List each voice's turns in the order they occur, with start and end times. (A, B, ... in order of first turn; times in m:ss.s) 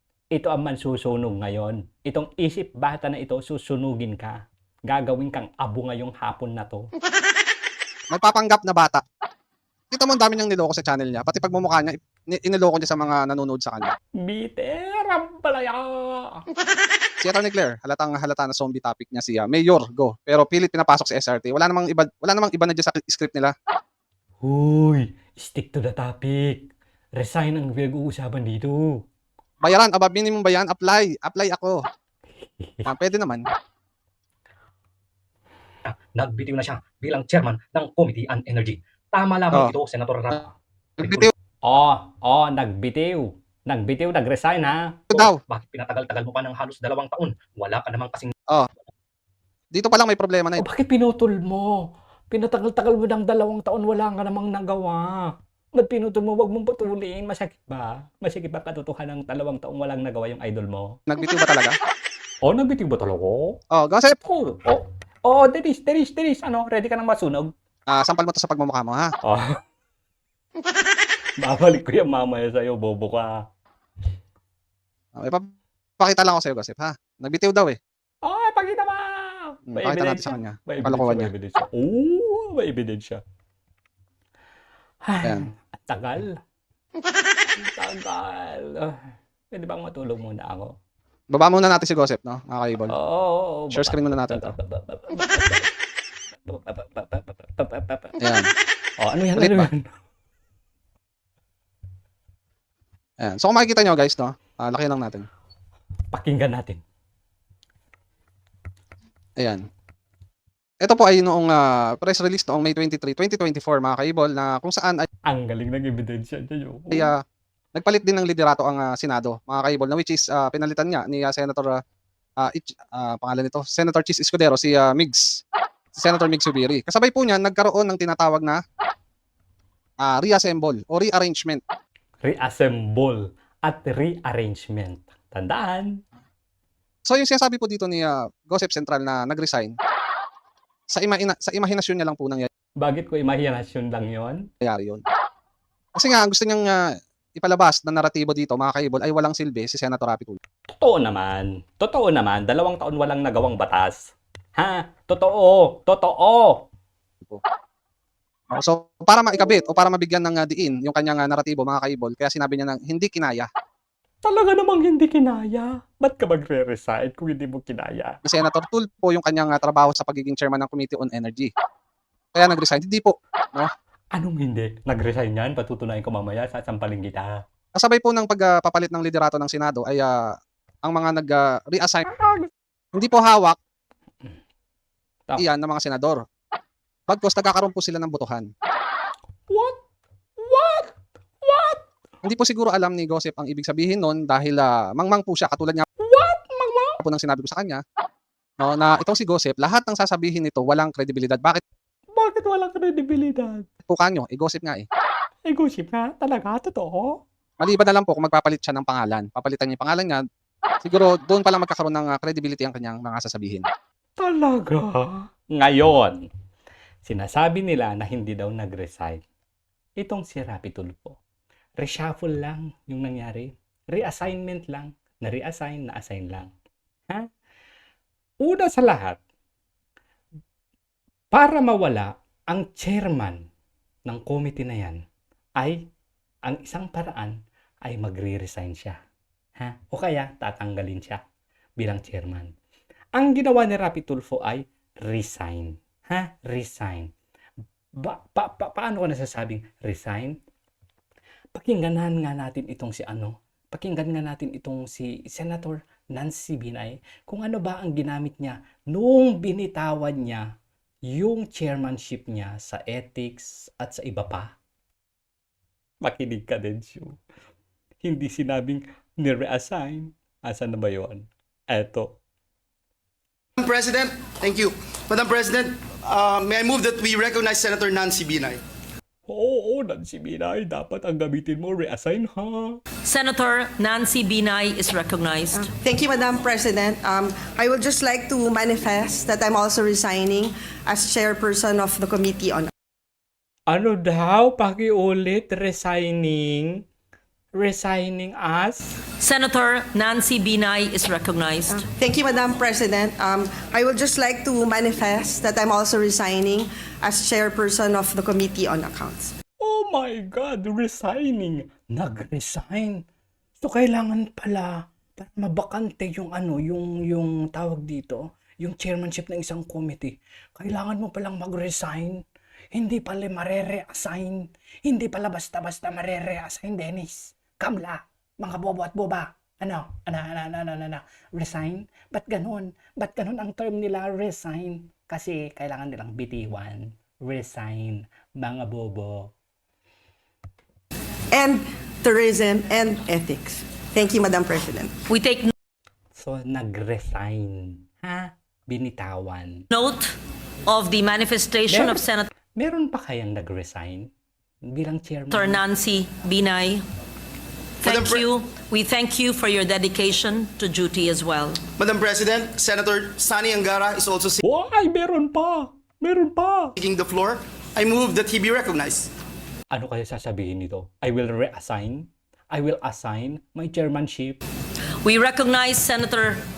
0:00.3-0:06.9 A
0:08.1-0:09.0 B
0:09.9-0:13.9 B
0:14.2-0:16.4 A
0:17.2-0:23.5 B
0:24.4-0:29.0 A
0:29.6-0:31.8 B
0:32.8-0:33.4 B
0:35.9-0:41.3 C
0:41.0-0:41.3 B
0:41.6-0:45.0 A
0:45.1-0:45.4 B
0:45.1-0:48.3 C
0:49.7-0:50.6 B
0:50.6-1:01.0 A
1:01.1-1:01.8 B
1:02.4-1:03.6 A
1:03.7-1:04.2 B
1:04.3-1:07.5 A
1:07.9-1:09.1 B
1:09.2-1:09.6 A
1:11.4-1:13.4 A
1:15.1-1:15.5 B
1:16.0-1:17.8 B
1:18.2-1:23.2 A
1:19.7-1:21.3 B
1:25.0-1:26.4 A
1:25.2-1:25.5 B
1:27.5-1:29.0 A
1:29.5-1:30.7 A
1:31.3-1:32.9 B
1:32.9-1:35.7 A
1:33.7-1:34.5 B
1:36.5-1:38.2 A
1:38.2-1:38.5 B
1:39.0-1:39.8 A
1:39.4-1:39.7 B
1:43.2-1:45.2 B
1:46.1-1:46.8 A
1:49.4-1:49.6 B
1:50.8-1:55.0 B
1:55.3-1:57.1 A
1:56.9-1:57.2 B
1:57.7-2:01.8 B
2:02.4-2:05.3 B
2:06.0-2:08.6 B
2:10.0-2:11.6 B
2:12.2-2:16.0 A
2:17.1-2:19.7 B
2:20.9-2:22.5 B
2:22.8-2:24.4 A
2:24.6-2:25.0 B
2:26.0-2:30.4 B
2:30.7-2:36.6 A
2:38.5-2:43.5 B
2:44.2-2:48.2 A
2:48.2-2:51.5 B
2:52.3-2:53.7 B
2:54.1-2:57.4 A
2:57.8-3:00.2 B
3:00.8-3:02.0 B
3:02.1-3:02.5 A
3:02.9-3:03.6 B
3:05.4-3:06.2 B
3:07.1-3:08.5 B
3:09.5-3:09.8 A
3:10.4-3:11.8 A
3:12.2-3:15.8 B
3:16.0-3:17.0 A
3:17.0-3:17.8 B
3:18.6-3:21.6 B
3:22.1-3:23.6 A
3:23.9-3:24.8 B
3:25.5-3:27.2 A
3:27.6-3:30.2 B
3:30.8-3:33.7 B
3:34.2-3:36.3 A
3:37.0-3:39.2 A
3:40.0-3:41.2 A
3:41.8-3:46.5 A
3:48.4-3:49.2 A
3:51.3-3:53.4 A
3:54.0-3:55.0 A
3:55.6-3:55.8 A
3:56.4-3:59.0 A
3:59.6-4:01.2 A
4:01.8-4:02.5 A
4:03.2-4:07.1 A
4:08.0-4:10.4 A
4:11.5-4:20.5 A
4:21.1-4:24.5 A
4:26.0-4:27.2 A
4:28.0-4:32.2 A
4:33.6-4:38.6 D
4:39.3-4:42.8 A
4:43.0-4:45.6 E
4:45.5-4:52.7 F
4:53.7-4:56.8 A
4:57.5-4:58.9 A
4:59.2-5:01.8 E
5:01.7-5:09.3 F
5:09.6-5:13.0 A
5:13.6-5:39.3 A
5:41.3-5:44.9 F
5:45.1-5:45.5 E
5:46.2-5:49.6 A
5:49.7-5:50.2 E
5:50.7-5:52.3 E
5:51.7-5:52.0 A
5:52.6-5:54.1 A
5:54.7-5:55.6 A
5:55.3-5:56.8 E
5:57.8-6:01.6 E
6:01.8-6:04.4 D
6:04.4-6:06.7 A
6:06.8-6:09.1 D
6:09.7-6:14.4 A
6:15.0-6:16.4 E